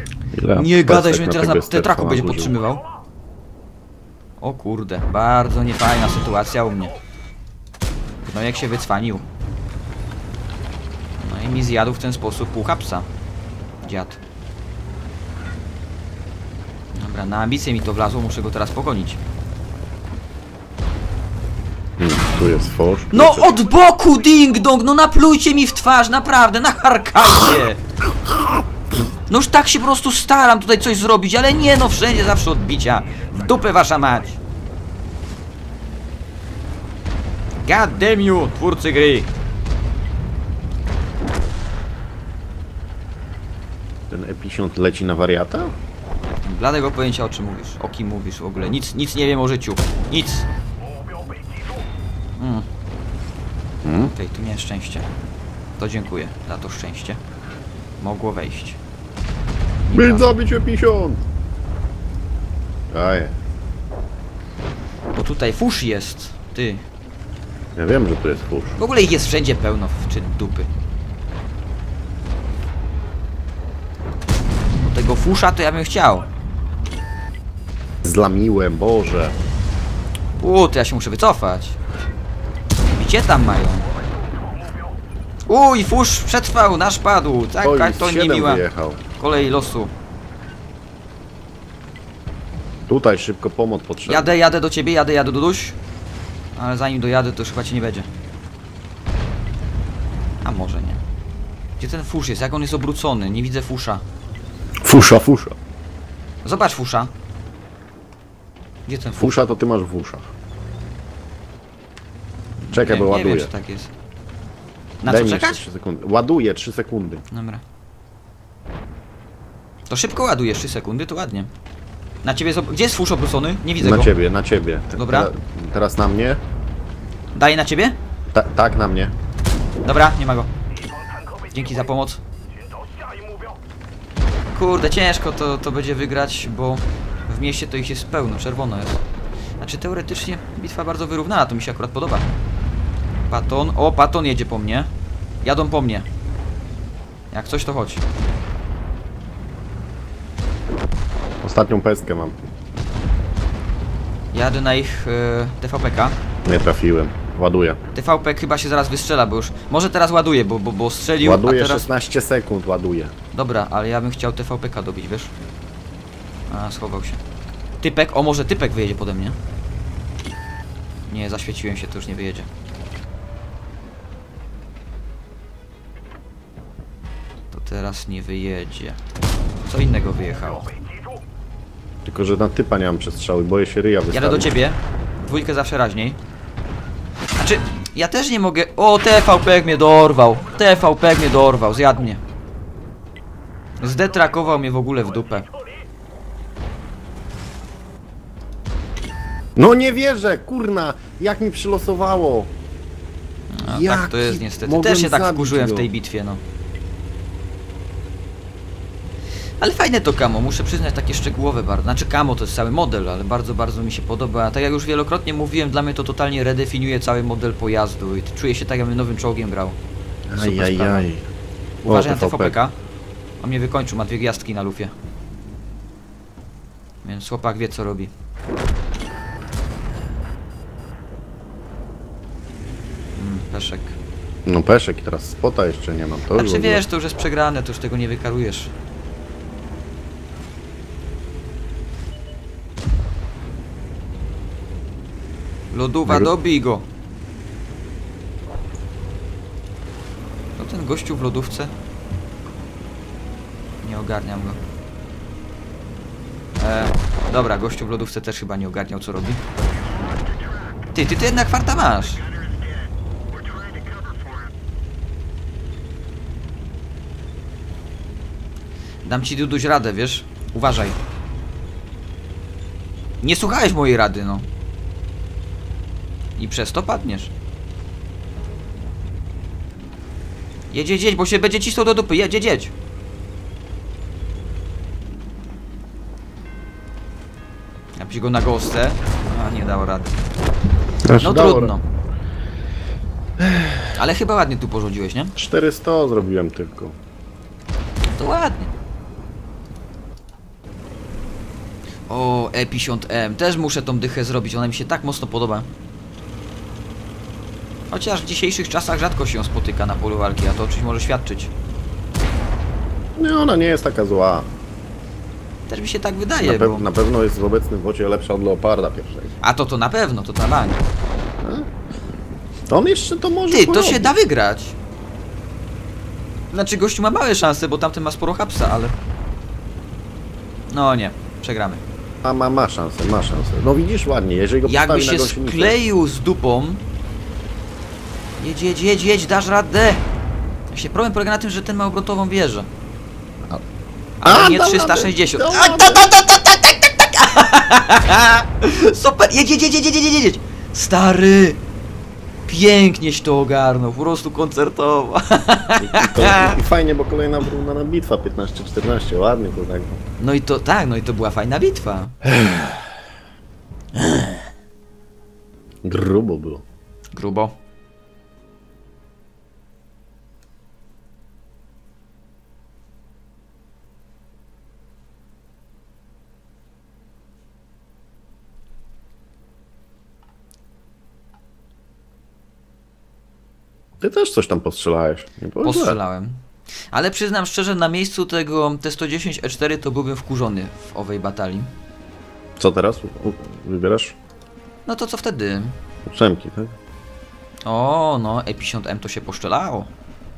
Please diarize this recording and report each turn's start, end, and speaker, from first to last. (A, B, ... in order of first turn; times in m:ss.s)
0:00.3-0:02.5 A
0:00.5-0:02.8 B
0:04.4-0:06.9 B
0:08.2-0:09.2 B
0:11.2-0:13.1 B
0:13.8-0:14.2 B
0:16.9-0:19.2 B
0:22.0-0:23.5 A
0:23.1-0:27.8 B
0:29.3-0:34.4 B
0:37.6-0:39.3 B
0:44.1-0:45.8 A
0:46.4-0:50.5 B
0:52.4-0:52.6 B
0:53.8-0:54.1 A
0:53.9-0:55.0 B
0:55.8-0:57.2 B
0:58.0-0:58.8 B
0:59.9-1:00.3 B
0:59.9-1:01.2 A
1:02.9-1:03.3 A
1:05.1-1:06.8 B
1:07.7-1:08.8 A
1:08.8-1:10.7 B
1:14.7-1:16.3 B
1:18.0-1:19.4 A
1:20.4-1:21.8 B
1:22.9-1:23.9 B
1:25.5-1:28.6 B
1:27.6-1:29.0 A
1:29.2-1:29.9 B
1:32.9-1:34.3 A
1:34.0-1:35.8 B
1:36.6-1:38.1 B
1:40.4-1:41.0 B
1:41.8-1:44.0 B
1:44.8-1:45.6 A
1:46.4-1:47.1 B
1:48.8-1:49.6 B
1:49.2-1:50.3 A
1:52.6-1:53.9 B
1:52.7-1:53.5 A
1:55.0-1:55.6 B
1:55.0-1:57.2 A
1:57.3-1:57.6 B
1:59.9-2:01.5 B
2:02.2-2:04.1 B
2:03.8-2:06.4 A
2:04.9-2:05.3 B
2:07.3-2:08.0 B
2:08.3-2:09.1 A
2:09.8-2:10.5 B
2:11.5-2:12.2 B
2:14.5-2:19.0 B
2:19.6-2:22.3 B
2:23.3-2:24.9 B
2:25.4-2:26.1 B
2:27.3-2:28.0 B
2:31.4-2:32.4 A
2:34.3-2:36.2 B
2:36.4-2:37.8 A
2:37.9-2:41.9 B
2:41.2-2:43.1 A
2:43.3-2:45.3 B
2:46.5-2:47.2 B
2:47.8-2:49.4 B
2:51.1-2:52.5 B
2:57.5-2:59.0 B
2:59.6-3:00.7 B
3:02.0-3:04.6 A
3:04.1-3:06.2 B
3:07.4-3:12.2 B
3:13.8-3:15.5 B
3:19.6-3:22.5 A
3:23.5-3:26.4 B
3:23.6-3:25.9 A
3:29.6-3:39.8 B
3:40.3-3:41.2 A
3:40.4-3:41.1 B
3:41.8-3:42.7 B
3:41.8-3:42.6 A
3:43.4-3:44.9 B
3:47.0-3:48.1 B
3:53.2-3:54.0 B
3:54.4-3:56.8 A
3:56.3-3:58.7 B
4:05.7-4:06.9 B
4:06.0-4:06.3 A
4:10.6-4:11.7 B
4:13.8-4:14.6 B
4:16.6-4:19.4 B
4:20.9-4:22.2 B
4:29.0-4:31.0 B
4:33.2-4:34.5 B
4:36.4-4:37.3 B
4:40.7-4:42.7 B
4:48.0-4:50.2 B
4:51.1-4:51.7 A
4:51.2-4:51.8 B
4:53.4-4:53.9 A
4:53.9-4:55.3 B
4:55.4-4:57.0 A
4:58.2-4:58.7 B
5:02.1-5:05.7 B
5:07.9-5:11.5 B
5:13.2-5:14.5 A
5:15.7-5:16.9 B
5:16.4-5:19.3 A
5:19.4-5:20.8 B
5:21.4-5:21.7 A
5:22.7-5:24.1 A
5:23.5-5:24.8 B
5:26.5-5:28.9 B
5:30.7-5:31.8 B
5:32.2-5:35.8 A
5:34.6-5:36.8 B
5:38.4-5:40.0 B
5:40.7-5:42.7 B
5:44.2-5:51.6 B
5:44.2-5:46.1 A
5:52.5-5:56.6 B
5:55.8-6:00.0 A
6:00.2-6:02.1 B
6:02.3-6:02.8 A
6:04.0-6:04.3 B
6:05.8-6:06.6 A
6:07.1-6:07.5 B
6:24.0-6:26.0 A
6:25.6-6:26.4 B
6:26.9-6:31.7 B
6:32.6-6:34.2 A
6:34.8-6:35.8 B
6:36.0-6:36.7 A
6:37.6-6:39.9 B